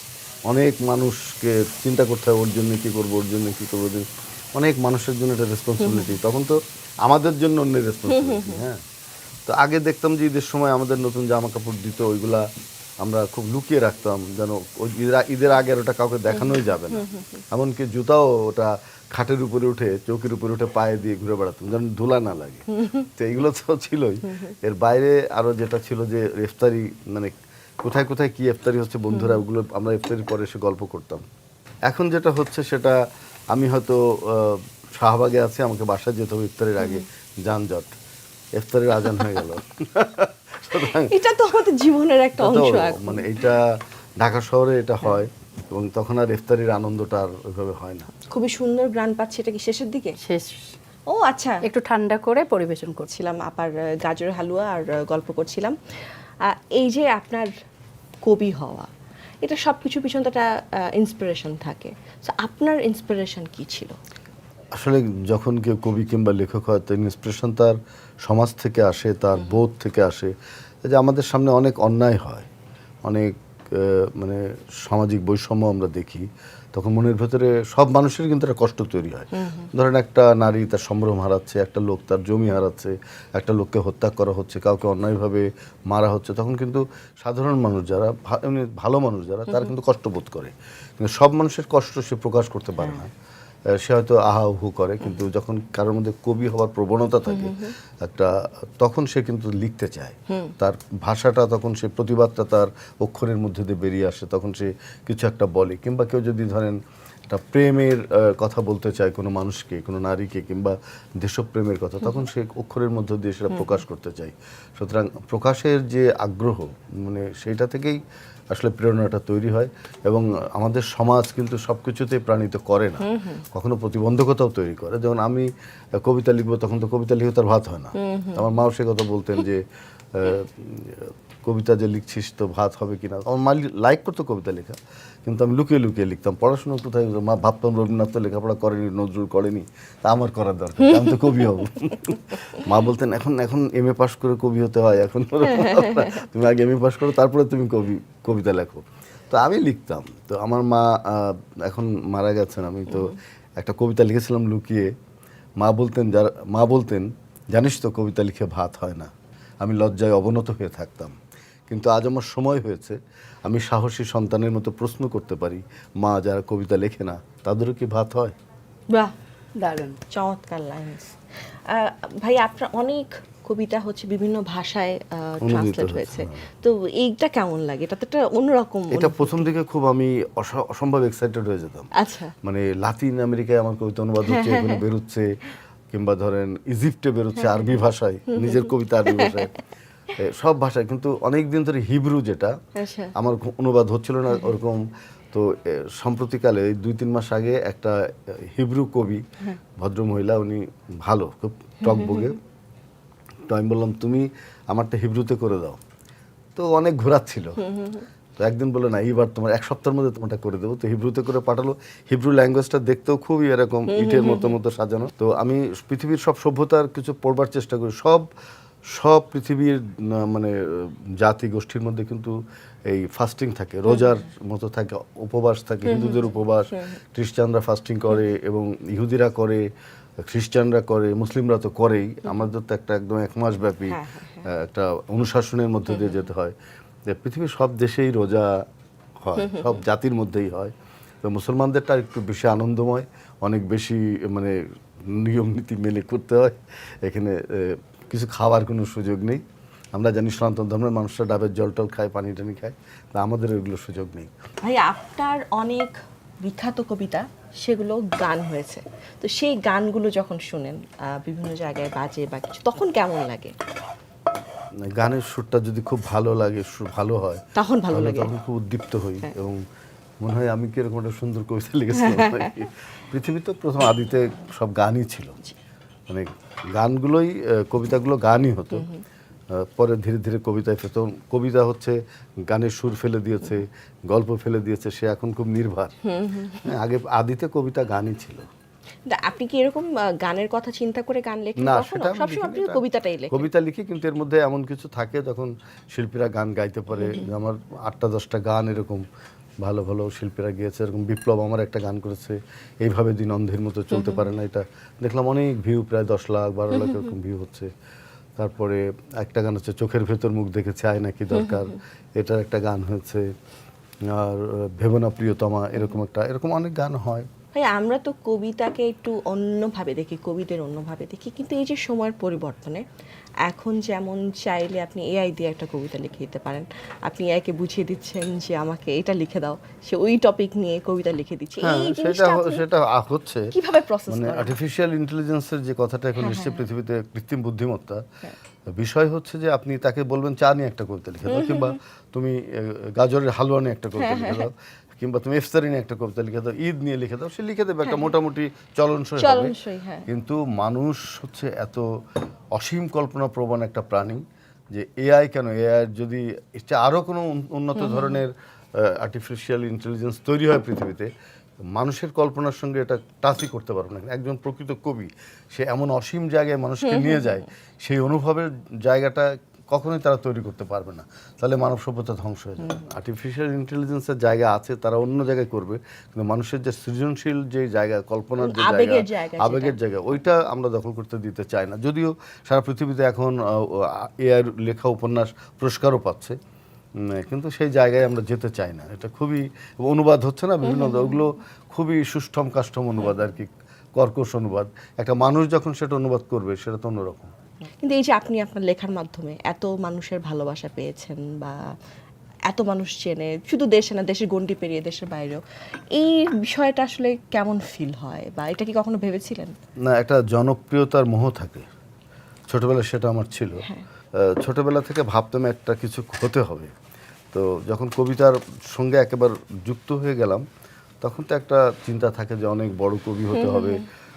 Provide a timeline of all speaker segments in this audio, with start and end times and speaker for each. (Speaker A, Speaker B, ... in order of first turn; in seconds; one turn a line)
Speaker A: 0.5-8.8
Speaker B: 5.8-6.2
Speaker B: 8.1-8.6
Speaker A: 9.5-12.4
Speaker A: 13.0-22.6
Speaker B: 16.3-17.4
Speaker B: 22.7-23.0
Speaker A: 23.2-31.2
Speaker B: 29.1-29.4
Speaker A: 31.9-33.0
Speaker A: 33.5-38.0
Speaker A: 38.6-41.1
Speaker B: 40.9-43.3
Speaker A: 42.4-43.6
Speaker A: 44.2-48.1
Speaker B: 48.3-50.2
Speaker C: 50.2-50.7
Speaker B: 51.1-51.6
Speaker C: 51.6-53.1
Speaker B: 53.1-55.7
Speaker B: 56.4-57.5
Speaker B: 58.2-58.9
Speaker B: 59.4-63.9
Speaker A: 64.8-70.3
Speaker A: 70.8-72.5
Speaker A: 73.0-93.1
Speaker B: 79.3-79.7
Speaker B: 89.5-89.7
Speaker B: 92.8-93.0
Speaker A: 93.8-106.8
Speaker B: 97.2-97.7
Speaker A: 107.3-118.0
Speaker A: 118.5-129.6
Speaker B: 123.0-123.4
Speaker B: 128.0-128.5
Speaker A: 130.1-154.9
Speaker B: 140.8-141.6
Speaker B: 145.6-146.0
Speaker B: 152.9-153.1
Speaker A: 155.6-159.1
Speaker A: 159.6-161.1
Speaker A: 161.7-168.3
Speaker C: 169.6-170.0
Speaker B: 170.1-171.1
Speaker B: 171.7-179.5
Speaker A: 175.4-176.4
Speaker A: 178.9-181.9
Speaker B: 182.0-182.3
Speaker A: 182.4-185.3
Speaker B: 184.2-184.8
Speaker A: 185.9-189.5
Speaker B: 187.3-187.7
Speaker B: 188.3-189.5
Speaker A: 190.2-192.5
Speaker B: 192.8-193.1
Speaker A: 193.2-199.2
Speaker A: 199.8-202.4
Speaker B: 201.8-202.3
Speaker A: 203.5-205.8
Speaker A: 206.6-207.6
Speaker B: 207.6-208.1
Speaker A: 208.4-218.3
Speaker B: 213.9-214.5
Speaker A: 218.9-222.3
Speaker A: 222.9-229.6
Speaker B: 225.8-226.9
Speaker A: 230.3-236.5
Speaker B: 233.9-234.4
Speaker B: 235.9-236.2
Speaker A: 237.1-238.6
Speaker A: 239.2-244.6
Speaker B: 239.4-239.8
Speaker A: 245.1-249.4
Speaker A: 249.9-254.3
Speaker B: 254.6-263.5
Speaker A: 264.8-269.6
Speaker B: 267.6-268.3
Speaker A: 270.2-275.4
Speaker B: 271.9-272.5
Speaker A: 276.1-278.9
Speaker A: 279.6-285.9
Speaker B: 286.1-286.7
Speaker A: 286.6-288.4
Speaker B: 289.1-293.5
Speaker A: 291.6-299.0
Speaker B: 297.0-297.3
Speaker A: 299.6-307.7
Speaker B: 303.9-304.2
Speaker B: 306.7-307.1
Speaker A: 308.4-313.2
Speaker A: 314.1-317.3
Speaker B: 317.5-322.8
Speaker B: 323.4-332.6
Speaker A: 331.6-333.4
Speaker B: 333.5-334.5
Speaker A: 334.1-338.0
Speaker B: 336.2-336.6
Speaker A: 338.8-349.6
Speaker B: 341.3-341.8
Speaker B: 343.9-344.5
Speaker B: 349.2-350.1
Speaker A: 350.1-351.9
Speaker A: 352.5-361.1
Speaker B: 357.8-358.2
Speaker A: 361.8-386.4
Speaker B: 378.4-379.8
Speaker A: 387.1-397.3
Speaker B: 390.6-391.2
Speaker B: 397.8-401.6
Speaker B: 402.5-405.4
Speaker B: 405.9-409.5
Speaker A: 409.9-411.7
Speaker A: 412.5-413.6
Speaker A: 414.3-416.7
Speaker A: 417.3-420.4
Speaker A: 421.0-423.8
Speaker B: 423.3-423.8